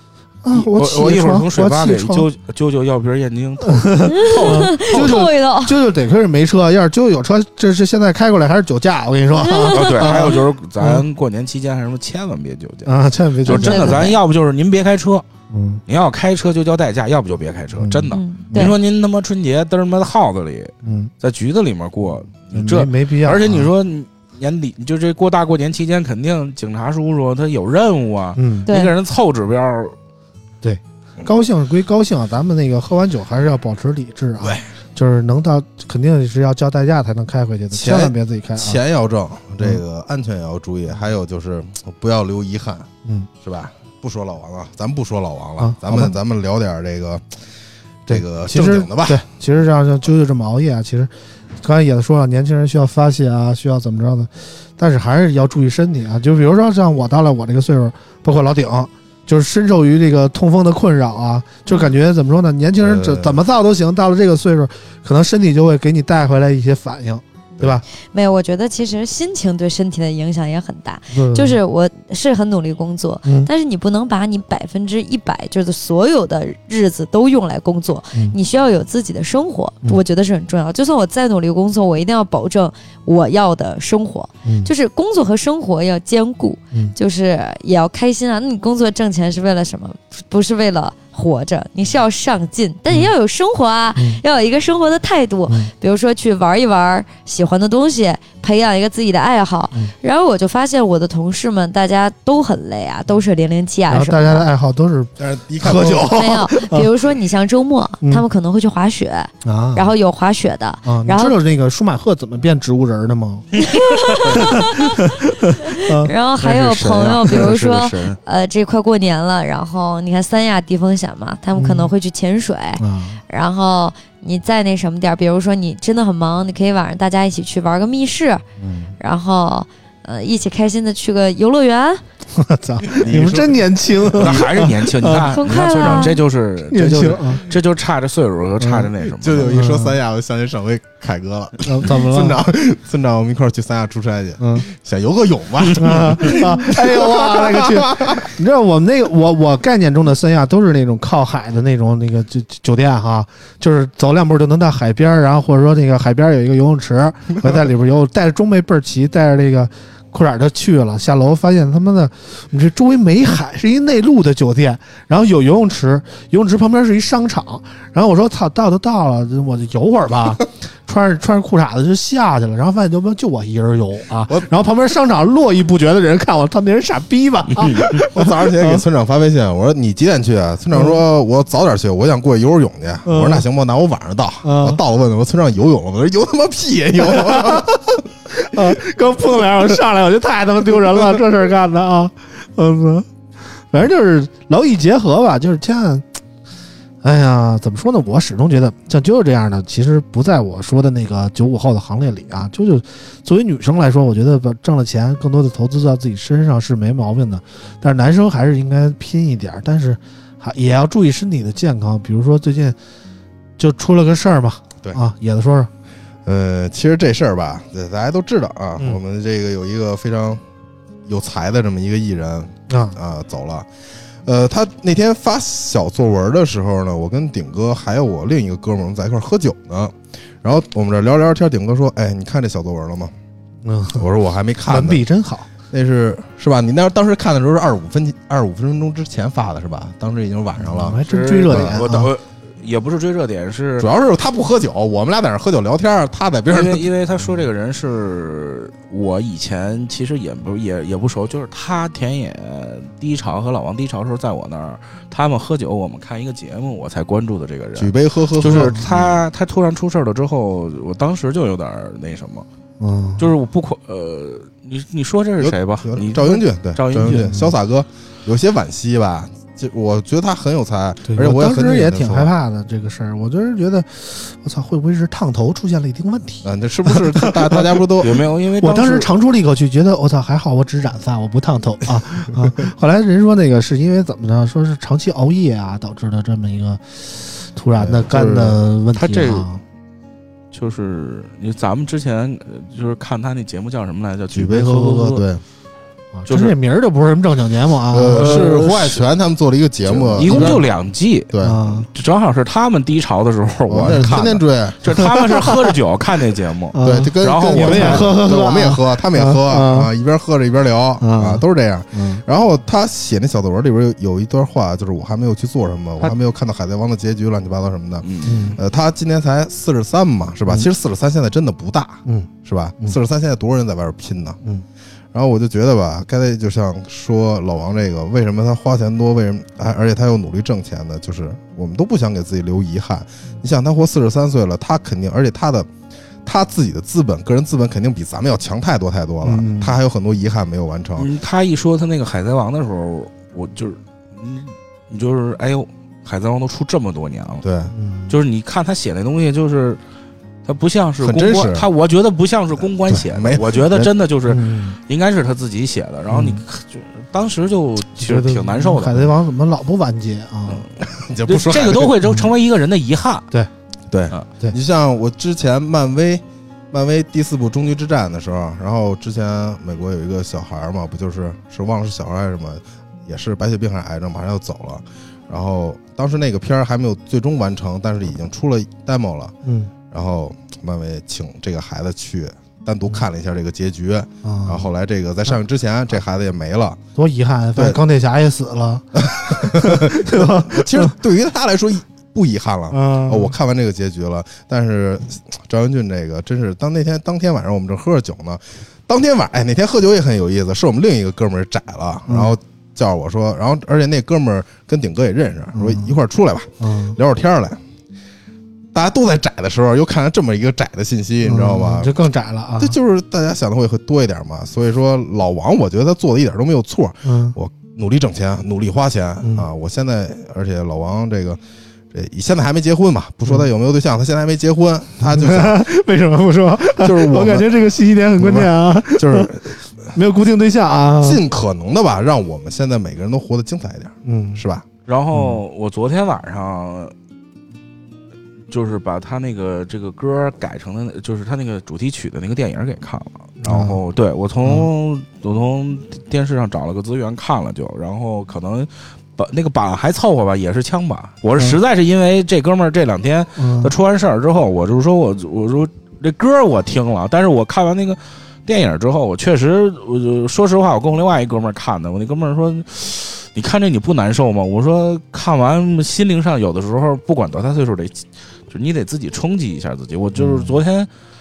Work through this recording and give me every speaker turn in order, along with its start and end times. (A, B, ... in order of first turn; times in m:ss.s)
0:00.4-0:02.3 A
0:00.5-0:05.3 B
0:03.6-0:11.0 A
0:04.2-0:05.8 C
0:09.4-0:10.4 C
0:09.7-0:12.9 B
0:12.8-0:14.1 A
0:13.4-0:14.2 C
0:13.4-0:15.3 B
0:15.5-0:15.8 A
0:15.9-0:30.0 B
0:17.8-0:18.7 A
0:18.1-0:18.8 C
0:20.8-0:21.1 A
0:22.5-0:23.7 A
0:28.4-0:28.7 A
0:28.7-0:28.9 C
0:30.6-0:38.8 A
0:37.7-0:42.9 D
0:43.4-0:47.2 D
0:45.6-0:46.1 A
0:48.1-0:49.2 D
0:48.1-1:07.8 A
1:01.7-1:01.9 C
1:02.8-1:03.4 D
1:08.0-1:44.4 C
1:11.1-1:11.6 A
1:13.2-1:13.5 A
1:24.4-1:24.7 A
1:34.0-1:34.2 A
1:43.9-1:46.9 A
1:45.2-1:46.4 D
1:46.1-1:51.4 C
1:49.4-1:49.9 A
1:50.9-1:53.5 A
1:53.6-1:54.8 C
1:53.7-1:54.6 B
1:54.4-1:56.1 A
1:55.7-2:08.4 C
1:56.4-1:58.2 B
2:01.6-2:01.9 A
2:02.8-2:03.2 A
2:08.6-2:09.0 A
2:09.0-2:12.0 C
2:12.4-2:16.2 A
2:12.8-2:14.6 D
2:14.2-2:19.5 B
2:15.3-2:16.2 C
2:16.7-2:17.4 A
2:18.6-2:18.9 A
2:19.1-2:28.3 D
2:19.4-2:20.0 A
2:21.6-2:22.4 A
2:24.4-2:24.7 A
2:25.8-2:58.8 A
2:57.8-3:08.0 D
3:03.1-3:03.4 A
3:04.4-3:04.8 A
3:07.0-3:07.7 A
3:08.3-3:13.1 A
3:13.7-3:16.1 A
3:17.0-3:32.8 A
3:33.6-3:35.7 A
3:36.2-3:40.4 D
3:41.1-3:43.7 D
3:42.7-3:43.0 A
3:44.2-3:53.1 D
3:53.6-3:54.0 A
3:54.0-3:55.0 D
3:54.7-3:55.5 A
3:55.7-4:01.8 D
4:00.6-4:02.1 A
4:01.0-4:03.9 B
4:03.8-4:06.9 D
4:06.5-4:22.5 B
4:17.8-4:19.2 D
4:18.4-4:18.8 A
4:22.8-4:23.3 A
4:23.2-4:27.3 B
4:25.4-4:32.3 D
4:27.1-4:27.5 A
4:31.1-4:37.6 A
4:36.4-4:38.3 D
4:38.0-4:39.1 B
4:38.6-4:49.6 A
4:47.8-4:48.6 D
4:48.9-4:49.5 B
4:50.5-4:55.2 B
4:54.3-4:55.4 D
4:54.4-4:55.1 A
4:56.2-4:58.6 A
4:56.3-4:56.6 B
4:57.9-5:00.6 D
4:58.1-4:59.0 B
4:59.9-5:08.1 B
5:00.2-5:00.6 A
5:01.3-5:01.6 D
5:01.4-5:01.9 A
5:03.7-5:04.8 D
5:03.9-5:04.2 A
5:04.9-5:05.7 A
5:06.7-5:09.9 A
5:06.8-5:24.4 D
5:11.0-5:12.2 A
5:18.0-5:18.5 B
5:18.2-5:18.6 A
5:25.1-5:35.7 D
5:36.2-5:41.1 D
5:39.2-5:39.8 A
5:41.0-5:47.4 B
5:47.4-5:47.7 D
5:47.7-5:48.2 A
5:48.1-5:49.8 B
5:50.4-5:59.1 B
5:51.0-5:51.7 D
5:53.0-5:53.9 D
5:54.3-5:54.8 A
5:56.1-5:56.4 A
5:58.0-6:00.6 A
6:00.8-6:02.0 D
6:01.3-6:03.3 B
6:03.9-6:19.3 D
6:19.4-6:19.7 A
6:19.9-6:26.8 D
6:24.2-6:24.7 A
6:27.0-6:30.9 A
6:29.0-6:47.6 D
6:32.7-6:33.4 A
6:42.1-6:42.3 A
6:45.5-6:45.9 A
6:46.6-6:47.0 A
6:48.7-6:51.9 D
6:51.2-6:52.8 A
6:52.6-7:01.4 D
6:57.0-6:57.4 A
7:01.9-7:05.6 D
7:05.0-7:09.4 A
7:06.8-7:07.6 D
7:08.2-7:09.6 D
7:09.9-7:11.2 A
7:11.0-7:14.7 D
7:14.0-7:14.4 A
7:14.9-7:16.9 B
7:15.1-7:15.4 A
7:18.5-7:50.9 B
7:23.4-7:23.8 A
7:33.4-7:33.7 A
7:50.2-7:50.6 A